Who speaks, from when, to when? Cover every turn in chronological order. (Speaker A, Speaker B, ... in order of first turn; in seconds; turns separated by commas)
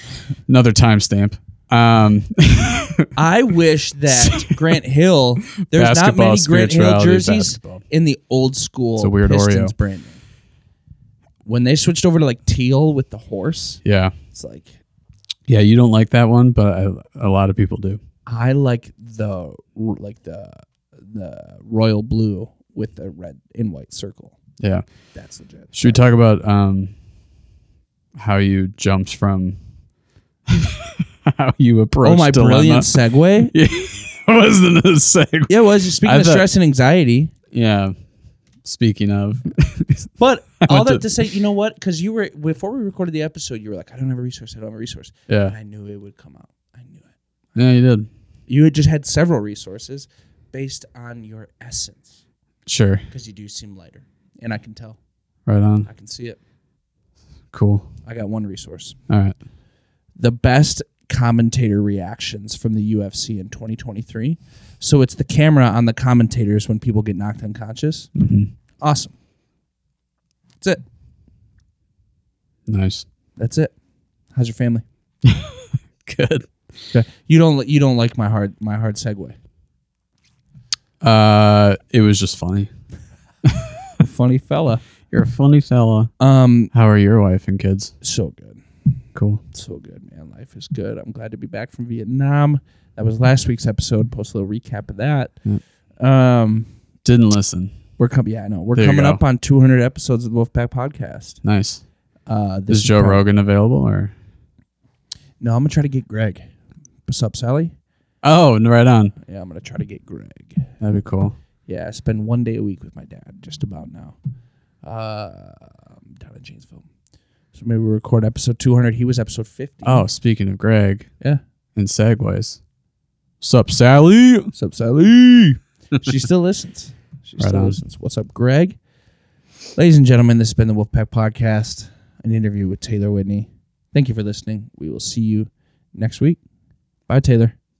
Speaker A: 0.5-3.1, Speaker B: 3.1-10.2, Speaker A: 4.1-4.5, Speaker A: 5.7-7.8, Speaker A: 9.0-9.7, Speaker B: 11.4-13.8, Speaker A: 13.8-14.1, Speaker B: 14.3-14.8, Speaker A: 15.5-18.0, Speaker B: 18.3-24.4, Speaker A: 24.6-24.9, Speaker B: 25.1-26.0, Speaker A: 25.8-26.9, Speaker A: 28.1-29.6, Speaker A: 30.5-32.9, Speaker B: 32.0-33.5, Speaker A: 33.5-36.5, Speaker B: 35.5-37.3, Speaker A: 37.5-37.9, Speaker A: 38.6-40.1, Speaker B: 40.2-47.1, Speaker A: 40.6-41.0, Speaker A: 45.3-45.5, Speaker A: 47.5-48.1, Speaker B: 48.5-52.1, Speaker A: 52.7-53.0, Speaker B: 53.1-55.0, Speaker A: 55.5-55.9, Speaker B: 55.9-56.4, Speaker A: 57.5-57.9, Speaker B: 58.0-59.0, Speaker A: 59.1-59.4, Speaker B: 60.1-68.1, Speaker A: 68.2-68.5, Speaker B: 68.8-69.1, Speaker A: 72.7-73.0, Speaker B: 73.4-73.7, Speaker B: 74.3-74.8, Speaker A: 75.2-76.5, Speaker B: 76.9-79.4, Speaker A: 81.0-82.7, Speaker B: 84.0-84.8, Speaker A: 85.1-86.1, Speaker B: 86.2-86.7, Speaker A: 86.7-87.9, Speaker B: 88.0-88.6, Speaker A: 89.1-89.4, Speaker B: 89.5-95.4, Speaker B: 96.0-96.7, Speaker A: 97.0-97.7, Speaker B: 98.0-101.4, Speaker A: 98.8-99.2, Speaker A: 101.4-101.8, Speaker B: 102.3-103.2, Speaker A: 102.7-104.1, Speaker B: 105.4-106.5, Speaker B: 107.0-107.7, Speaker A: 108.2-109.1, Speaker B: 109.2-110.7, Speaker A: 110.8-111.4, Speaker B: 111.7-114.2, Speaker B: 114.8-116.9, Speaker B: 117.5-120.1, Speaker A: 119.8-121.1, Speaker A: 121.8-122.6, Speaker A: 123.4-124.5, Speaker B: 124.5-128.8, Speaker A: 127.4-127.8, Speaker B: 129.8-136.4, Speaker B: 137.1-137.6